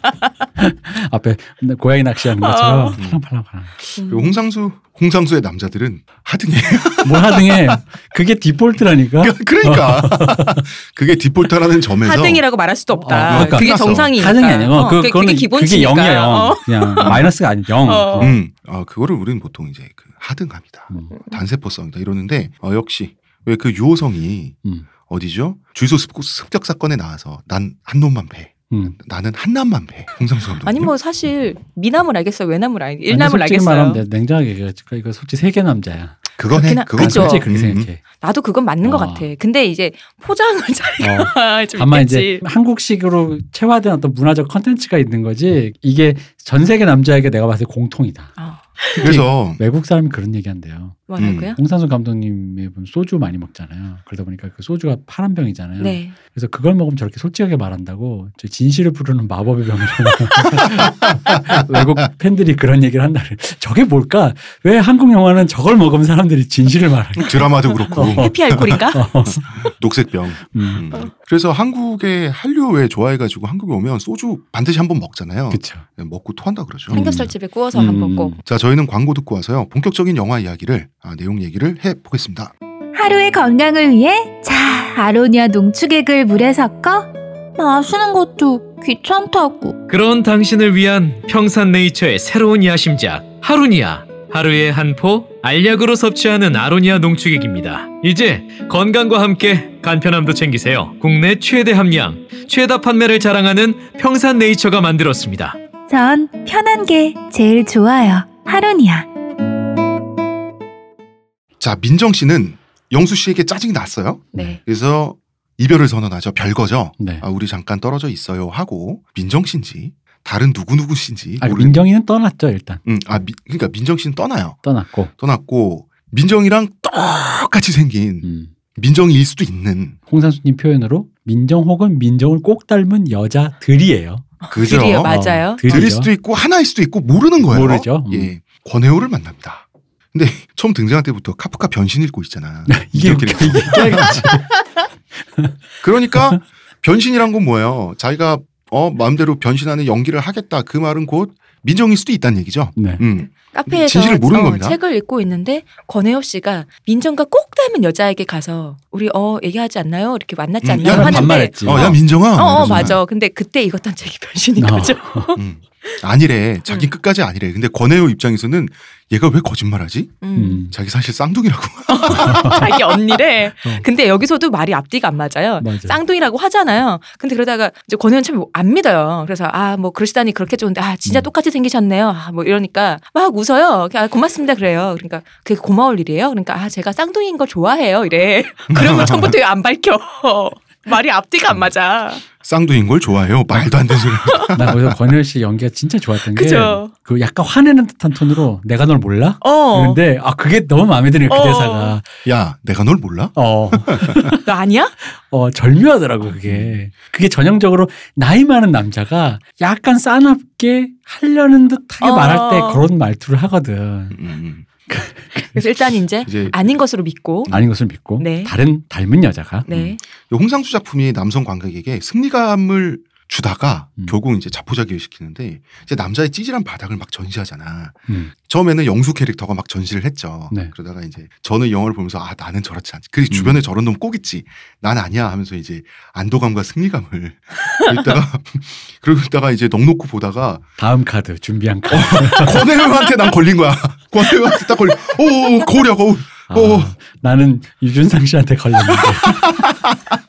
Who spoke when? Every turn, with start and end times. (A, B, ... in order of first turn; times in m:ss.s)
0:00.6-0:03.7 A
0:02.4-0:03.0 B
0:03.0-0:03.2 C
0:04.0-0:04.3 B
0:04.1-0:07.8 C
0:07.0-0:10.6 A
0:09.2-0:12.4 C
0:12.0-0:18.3 B
0:13.0-0:18.4 A
0:13.2-0:14.1 C
0:17.0-0:17.3 C
0:18.2-0:30.9 C
0:21.1-0:21.4 B
0:28.7-0:29.0 A
0:30.6-0:34.0 B
0:33.1-0:36.2 A
0:36.4-0:37.9 C
0:36.5-0:37.5 B
0:37.0-0:38.0 A
0:38.2-0:42.4 B
0:38.8-0:39.3 A
0:41.0-0:48.4 A
0:48.4-0:49.2 B
0:49.0-1:09.7 A
0:49.0-0:49.6 C
0:51.1-0:51.6 B
0:51.2-0:51.5 C
0:55.8-0:56.2 B
1:07.2-1:17.0 C
1:07.9-1:09.0 B
1:10.5-1:10.8 A
1:15.5-1:15.8 A
1:16.9-1:18.4 A
1:16.9-1:18.4 B
1:18.4-1:22.5 C
1:22.9-1:29.8 D
1:29.9-1:45.6 E
1:45.9-1:49.1 D
1:51.6-2:01.8 C
1:54.3-1:54.6 A
1:57.0-1:57.2 A
2:01.4-2:02.8 A
2:02.8-2:04.6 C
2:04.6-2:05.1 A
2:05.2-2:10.0 C
2:08.2-2:08.5 A
2:10.1-2:16.1 A
2:14.4-2:15.9 B
2:14.5-2:24.4 C
2:17.5-2:18.3 A
2:22.7-2:24.5 A
2:25.8-2:34.8 C
2:32.8-2:33.0 A
2:33.2-2:46.0 B
2:40.6-2:43.0 C
2:40.8-2:42.9 A
2:44.6-2:45.3 A
2:45.4-2:50.2 C
2:50.2-2:50.7 B
2:50.3-2:50.7 A
2:50.7-2:52.9 C
2:51.9-3:12.2 B
2:52.1-2:52.7 A
2:55.6-2:56.0 A
3:08.7-3:09.4 C
3:12.4-3:14.9 C
3:14.2-3:14.5 B
3:14.5-3:22.0 A
3:16.3-3:16.9 B
3:19.4-3:20.0 B
3:21.3-3:22.0 B
3:22.2-3:24.4 C
3:23.4-3:24.4 A
3:24.4-3:24.9 B
3:25.1-3:34.2 A
3:26.4-3:26.8 C
3:32.0-3:32.8 B
3:34.1-3:34.6 C
3:34.9-3:35.4 A
3:35.4-3:37.5 B
3:36.2-3:36.6 C
3:37.5-3:39.7 A
3:38.2-3:38.5 B
3:39.7-3:40.0 B
3:39.7-4:00.6 C
3:53.3-3:53.6 A
4:00.8-4:02.7 A
4:01.9-4:06.9 C
4:06.5-4:09.6 A
4:09.2-4:09.8 C